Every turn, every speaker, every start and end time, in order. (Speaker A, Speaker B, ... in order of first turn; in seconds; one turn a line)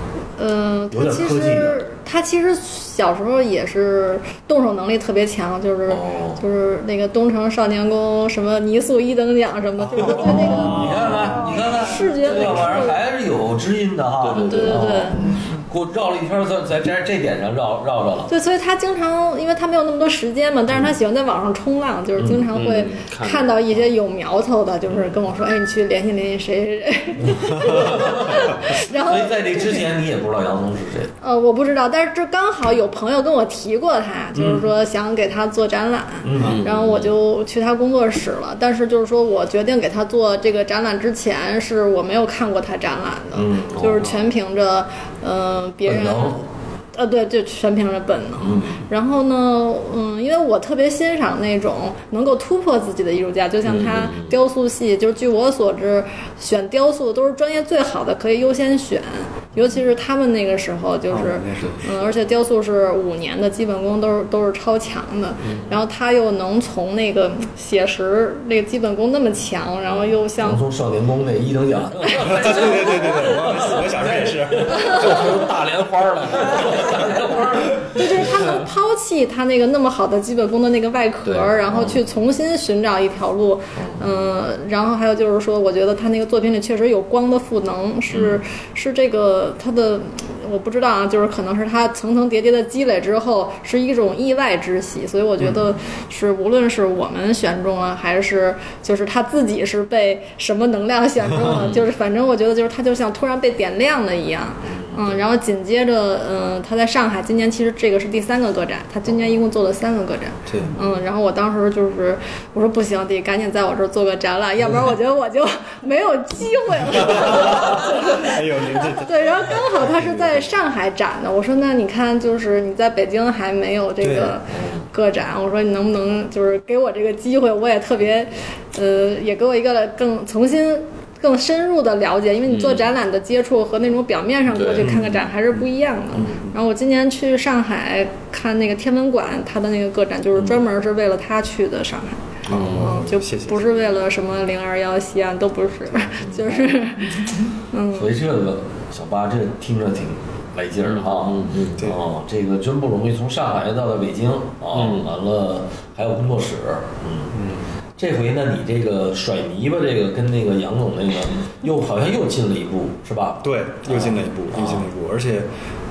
Speaker A: 0.4-13.0
Speaker B: 0.9-1.8
Speaker B: 5.9-6.4
Speaker B: 10.0-18.3
Speaker C: 14.2-15.0
Speaker A: 14.3-15.2
Speaker A: 18.3-29.8
Speaker C: 22.5-23.9
Speaker B: 27.3-31.1
Speaker A: 31.2-46.4
Speaker B: 34.3-34.6
Speaker B: 36.2-36.6
Speaker C: 36.4-37.1
Speaker B: 43.3-44.2
Speaker B: 45.8-46.4
Speaker A: 46.9-70.6
Speaker B: 48.4-48.8
Speaker C: 53.6-54.3
Speaker D: 61.1-62.0
Speaker B: 70.4-75.6
Speaker C: 72.1-78.1
Speaker D: 72.2-75.1
Speaker B: 76.3-78.3
Speaker A: 77.9-148.2
Speaker C: 81.2-81.9
Speaker B: 83.8-84.1
Speaker C: 101.4-101.8
Speaker B: 104.7-105.2
Speaker D: 110.5-110.8
Speaker D: 116.9-120.5
Speaker D: 124.0-124.4
Speaker B: 124.5-124.8
Speaker C: 132.5-132.9
Speaker C: 134.5-134.9
Speaker B: 134.8-135.1
Speaker B: 140.3-140.6
Speaker C: 142.5-142.9
Speaker D: 142.5-144.1
Speaker B: 142.6-143.0
Speaker B: 146.2-146.7
Speaker B: 147.9-157.3
Speaker C: 150.9-151.9
Speaker C: 154.7-155.1
Speaker D: 157.3-157.7
Speaker B: 158.0-164.8
Speaker D: 163.4-165.5